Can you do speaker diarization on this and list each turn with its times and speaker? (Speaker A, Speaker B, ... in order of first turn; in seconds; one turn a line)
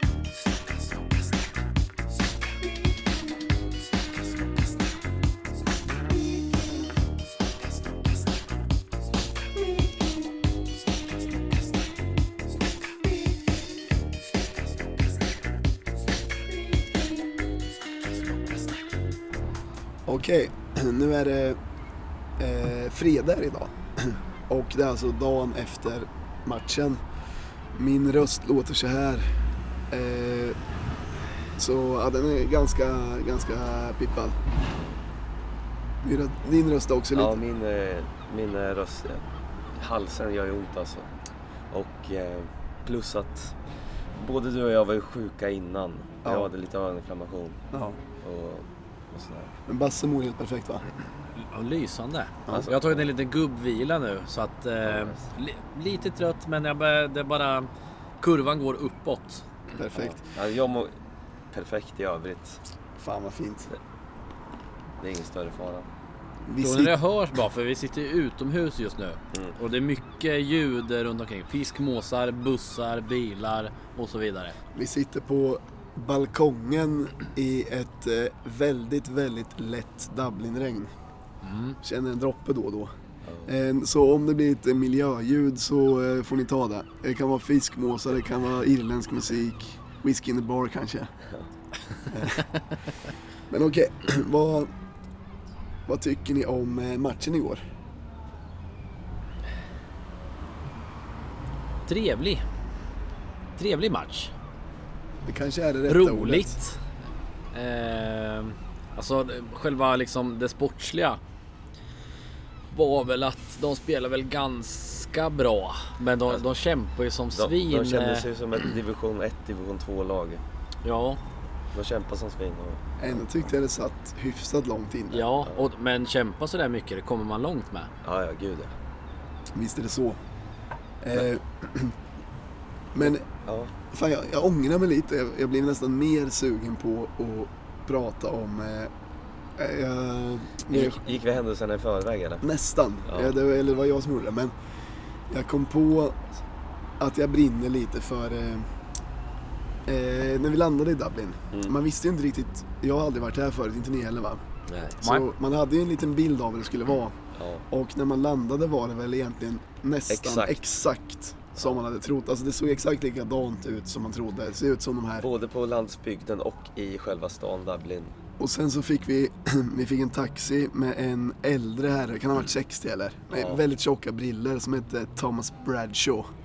Speaker A: 20.1-21.6
Speaker A: 22.4-27.0
Speaker A: 27.7-29.3
Speaker A: 29.9-30.6
Speaker A: 31.6-34.4
Speaker A: 36.0-37.4
Speaker B: 37.1-39.2
Speaker B: 39.8-41.1
Speaker B: 41.7-43.5
Speaker B: 44.1-47.6
Speaker A: 46.2-46.5
Speaker A: 47.7-48.0
Speaker B: 48.2-49.5
Speaker A: 49.7-50.8
Speaker C: 51.4-57.7
Speaker B: 52.5-53.1
Speaker B: 54.8-55.2
Speaker C: 58.2-59.4
Speaker A: 59.7-60.2
Speaker B: 59.9-60.9
Speaker B: 61.5-62.6
Speaker A: 63.0-63.7
Speaker B: 65.0-65.9
Speaker A: 66.5-67.0
Speaker C: 66.6-74.5
Speaker A: 74.7-80.9
Speaker C: 81.4-81.8
Speaker A: 81.8-82.9
Speaker B: 83.2-83.5
Speaker A: 83.5-91.1
Speaker A: 92.1-92.5
Speaker A: 93.5-94.7
Speaker A: 95.9-97.6
Speaker C: 101.9-102.4
Speaker C: 103.6-104.3
Speaker A: 105.2-106.6
Speaker C: 105.9-106.8
Speaker C: 107.5-111.2
Speaker C: 112.7-118.2
Speaker B: 117.3-120.4
Speaker C: 120.8-121.2
Speaker B: 121.7-123.2
Speaker A: 123.0-125.2
Speaker C: 125.1-127.9
Speaker B: 128.0-128.7
Speaker A: 129.5-130.2
Speaker A: 131.0-131.9
Speaker A: 132.9-133.2
Speaker B: 133.1-133.7
Speaker A: 133.9-138.9
Speaker A: 139.6-141.1
Speaker B: 140.7-142.4
Speaker A: 142.4-144.5
Speaker B: 143.1-143.3
Speaker A: 145.3-146.2
Speaker A: 147.0-148.7
Speaker A: 149.8-154.4
Speaker B: 154.7-155.0
Speaker A: 155.0-157.2
Speaker C: 155.0-155.3
Speaker B: 157.4-157.6
Speaker A: 157.7-165.3
Speaker B: 160.1-160.6
Speaker B: 165.2-168.1
Speaker A: 168.4-176.3